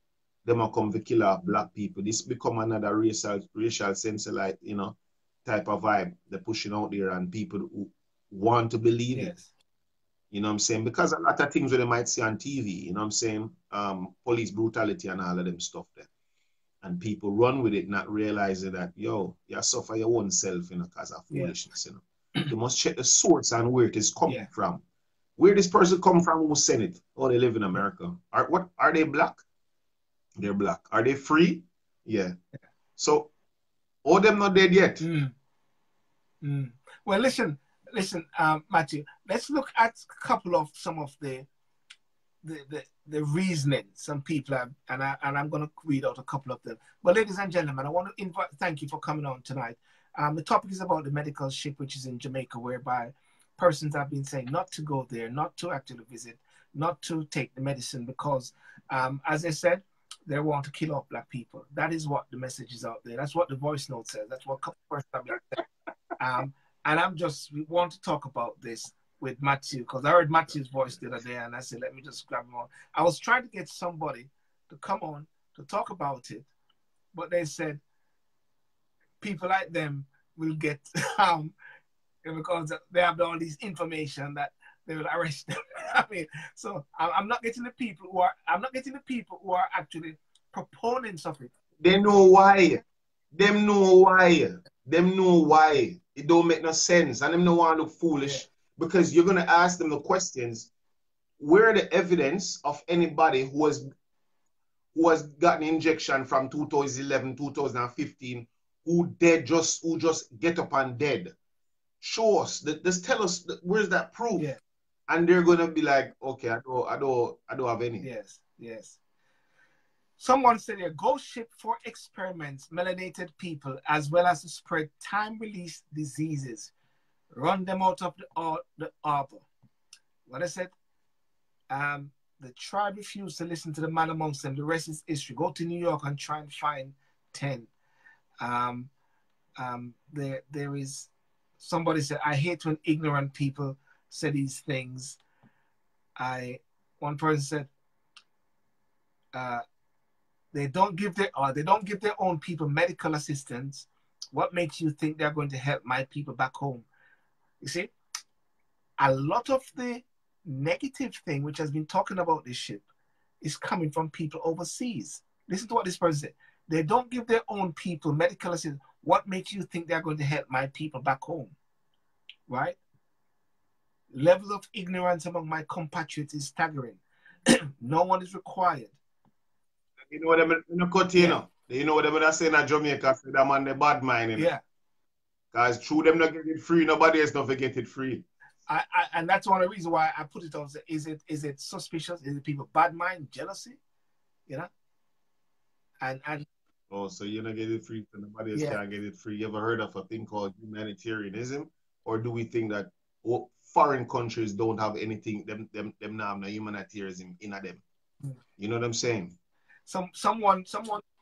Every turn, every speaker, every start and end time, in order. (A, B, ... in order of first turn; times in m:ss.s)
0:00.4-0:09.3 A
0:09.1-0:09.5 B
0:10.3-0:16.1 A
0:16.8-0:24.8 A
0:21.3-0:21.6 B
0:25.4-0:29.4 A
0:30.4-0:32.4 A
0:33.0-0:33.3 A
0:34.0-0:35.0 A
0:35.0-0:35.3 B
0:36.4-0:41.5 B
0:42.4-1:05.6 B
1:06.2-1:16.5 B
1:17.1-1:17.8 B
1:19.2-1:21.5 B
1:22.2-1:31.5 B
1:31.8-1:40.7 A
1:41.4-1:43.9 A
1:44.9-1:51.3 A
1:52.0-1:54.5 A
1:55.1-1:58.1 A
1:58.0-1:59.0 B
2:00.2-2:06.7 B
2:07.3-2:09.5 B
2:10.3-2:10.7 B
2:11.7-2:17.7 B
2:18.4-2:18.9 B
2:19.6-2:25.2 B
2:26.2-2:27.7 B
2:29.3-2:29.6 B
2:30.5-2:36.9 B
2:37.6-2:37.9 B
2:39.0-2:42.8 B
2:43.4-2:51.6 B
2:52.5-2:52.8 B
2:54.1-2:59.0 B
3:00.1-3:04.5 A
3:01.2-3:01.4 B
3:04.4-3:04.6 B
3:05.5-3:08.2 A
3:08.7-3:13.8 B
3:16.0-3:16.5 B
3:16.9-3:27.8 A
3:28.6-3:29.4 A
3:29.9-3:31.0 B